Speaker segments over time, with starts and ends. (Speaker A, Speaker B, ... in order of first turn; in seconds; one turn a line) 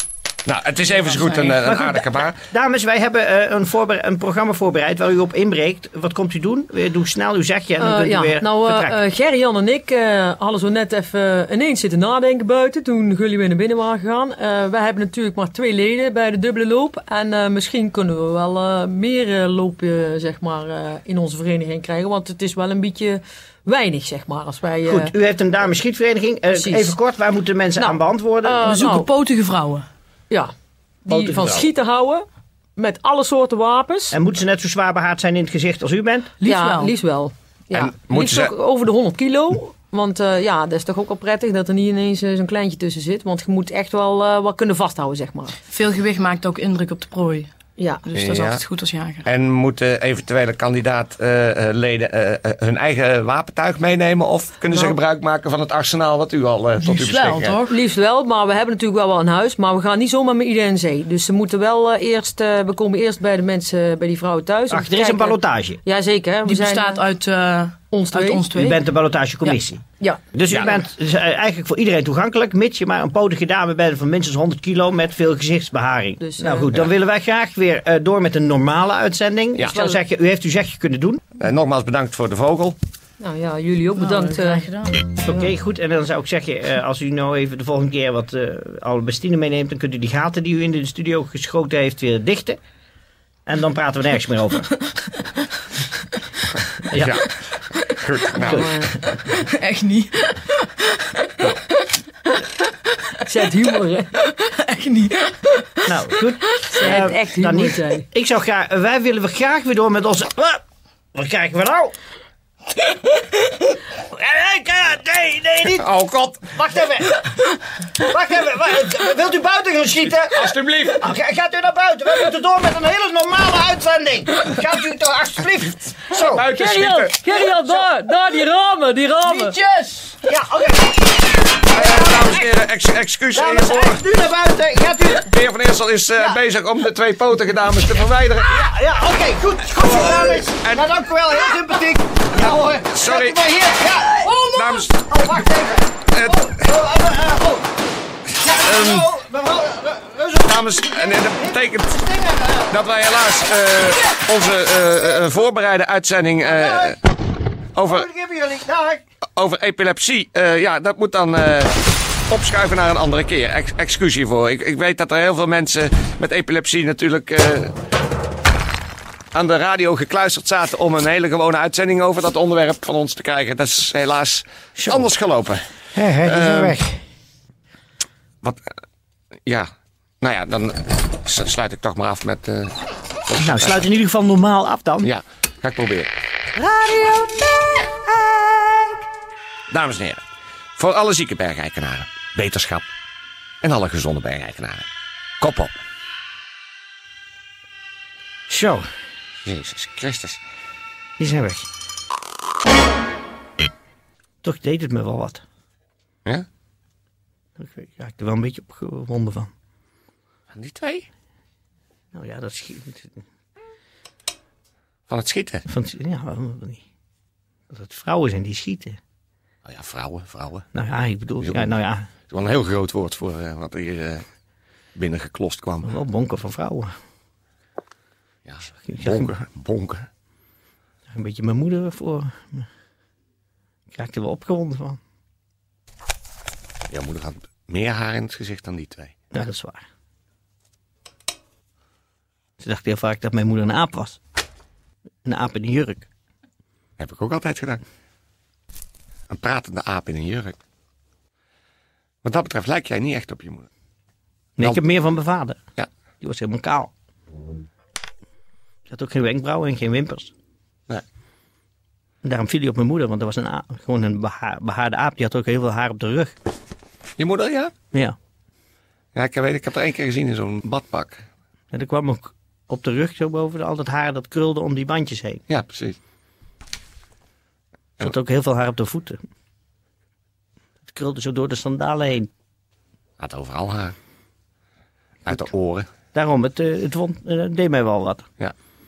Speaker A: 0.5-2.4
Speaker B: 1.1-1.5
Speaker C: 1.5-9.0
Speaker D: 7.8-25.1
Speaker C: 24.8-28.7
Speaker D: 26.5-26.9
Speaker D: 27.8-29.1
Speaker B: 28.6-29.9
Speaker D: 31.0-32.2
Speaker C: 31.1-31.7
Speaker D: 32.8-34.2
Speaker C: 34.1-36.3
Speaker B: 36.4-36.9
Speaker D: 36.4-45.6
Speaker A: 37.7-38.5
Speaker B: 45.7-47.5
Speaker D: 47.8-48.0
Speaker B: 48.0-49.3
Speaker A: 48.1-48.6
Speaker A: 49.2-57.6
Speaker B: 56.8-57.8
Speaker D: 57.7-67.0
Speaker C: 64.7-65.8
Speaker B: 66.4-68.8
Speaker D: 67.9-68.5
Speaker C: 68.5-81.2
Speaker A: 70.5-70.8
Speaker D: 76.2-76.7
Speaker D: 79.7-80.0
Speaker A: 81.4-82.8
Speaker D: 83.2-85.5
Speaker B: 84.0-85.0
Speaker C: 85.2-92.6
Speaker C: 93.5-94.7
Speaker C: 96.8-97.2
Speaker A: 97.0-98.7
Speaker D: 98.4-99.0
Speaker C: 98.4-98.9
Speaker B: 99.2-101.6
Speaker D: 103.2-104.2
Speaker B: 104.2-107.0
Speaker C: 105.9-110.6
Speaker D: 106.8-108.0
Speaker C: 111.1-111.9
Speaker C: 113.9-115.9
Speaker A: 115.8-116.5
Speaker C: 116.5-117.3
Speaker C: 118.0-126.5
Speaker A: 120.0-121.1
Speaker A: 126.1-127.2
Speaker D: 126.5-129.6
Speaker B: 129.3-130.1
Speaker C: 130.2-131.0
Speaker C: 131.7-132.5
Speaker A: 131.7-134.0
Speaker C: 133.3-135.3
Speaker A: 135.2-138.5
Speaker C: 138.4-147.7
Speaker A: 139.8-140.8
Speaker A: 142.3-143.4
Speaker A: 144.5-145.0
Speaker A: 146.1-146.6
Speaker C: 148.4-152.8
Speaker A: 148.6-149.1
Speaker A: 150.4-152.0
Speaker A: 152.7-157.0
Speaker C: 156.4-157.0
Speaker A: 157.7-158.1
Speaker C: 157.8-159.0
Speaker A: 159.3-161.7
Speaker A: 162.3-167.7
Speaker A: 169.3-175.6
Speaker C: 174.8-175.1
Speaker C: 175.9-177.0
Speaker A: 176.2-176.8
Speaker A: 180.2-182.8
Speaker A: 183.3-183.8
Speaker C: 183.4-185.1
Speaker A: 185.0-186.1
Speaker C: 186.6-188.9
Speaker A: 189.7-190.2
Speaker A: 190.8-192.9
Speaker A: 193.6-194.8
Speaker A: 195.4-195.8
Speaker C: 198.5-198.8
Speaker A: 199.4-200.4
Speaker C: 201.2-201.7
Speaker C: 204.4-205.4
Speaker C: 207.6-209.5
Speaker A: 210.5-211.1
Speaker C: 212.1-213.2
Speaker A: 215.1-215.6
Speaker C: 215.7-216.8
Speaker C: 217.7-219.0
Speaker A: 219.7-220.6
Speaker C: 220.7-222.1
Speaker A: 221.4-221.7
Speaker A: 222.3-224.2
Speaker A: 224.9-225.9
Speaker C: 225.8-226.9
Speaker A: 228.4-230.1
Speaker C: 228.8-229.3
Speaker C: 231.1-232.7
Speaker C: 233.9-235.0
Speaker A: 236.9-239.1
Speaker C: 239.3-239.8
Speaker C: 242.6-244.2
Speaker C: 245.2-246.1
Speaker A: 247.0-247.8
Speaker A: 249.3-250.6
Speaker A: 252.2-253.7
Speaker C: 254.6-255.6
Speaker C: 256.2-256.9
Speaker C: 258.9-260.3
Speaker C: 262.2-266.3
Speaker A: 267.2-267.7
Speaker A: 269.1-271.2
Speaker C: 271.7-275.4
Speaker A: 275.5-276.0
Speaker C: 278.0-279.2
Speaker C: 280.9-282.3
Speaker A: 283.2-283.9
Speaker A: 285.2-285.9
Speaker C: 286.1-288.2